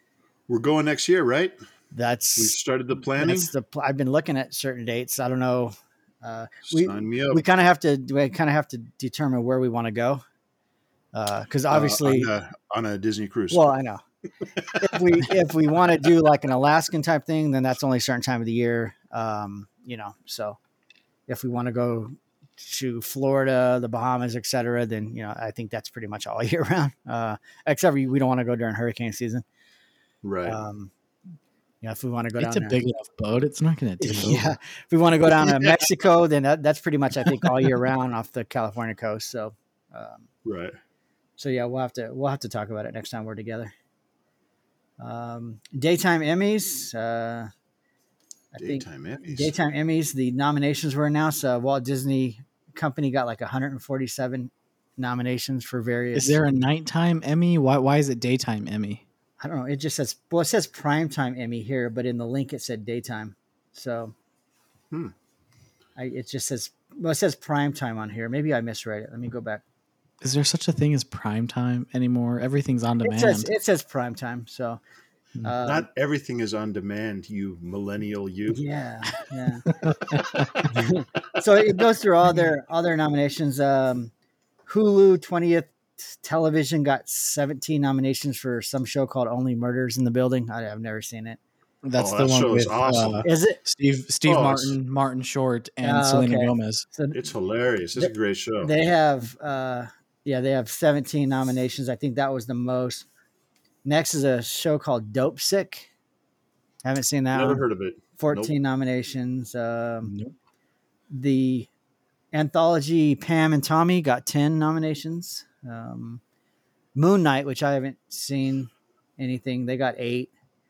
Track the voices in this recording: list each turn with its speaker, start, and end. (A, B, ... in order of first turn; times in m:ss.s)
0:00.5-0:01.6 A
0:01.9-0:10.2 B
0:02.4-0:03.5 A
0:06.7-0:07.4 A
0:11.1-0:12.3 B
0:11.7-0:13.6 A
0:13.5-0:14.0 B
0:14.6-0:14.9 A
0:14.8-0:20.6 B
0:21.3-0:29.4 B
0:30.2-0:30.6 A
0:30.4-0:30.9 B
0:31.8-0:32.8 B
0:32.4-0:34.5 C
0:34.0-0:40.3 B
0:35.4-0:35.7 A
0:40.4-0:40.8 A
0:41.4-0:43.7 B
0:45.0-0:47.5 B
0:48.6-0:56.4 B
0:48.6-0:49.5 A
0:56.1-0:59.0 C
0:59.4-1:04.1 B
1:06.0-1:09.6 B
1:10.2-1:13.5 C
1:13.0-1:14.8 B
1:15.4-1:15.9 B
1:15.6-1:18.6 A
1:18.5-1:19.7 B
1:19.8-1:20.6 C
1:20.7-1:24.1 B
1:24.7-1:31.4 B
1:31.8-1:36.8 C
1:32.0-1:33.3 A
1:33.2-1:33.6 B
1:34.3-1:34.8 A
1:35.8-1:37.3 B
1:37.1-1:38.7 A
1:38.6-1:43.1 B
1:43.8-1:45.9 B
1:46.8-1:47.6 B
1:47.3-1:48.5 A
1:48.2-1:50.1 B
1:50.0-1:50.4 C
1:51.1-1:51.7 B
1:52.3-1:56.2 B
1:56.9-2:00.3 B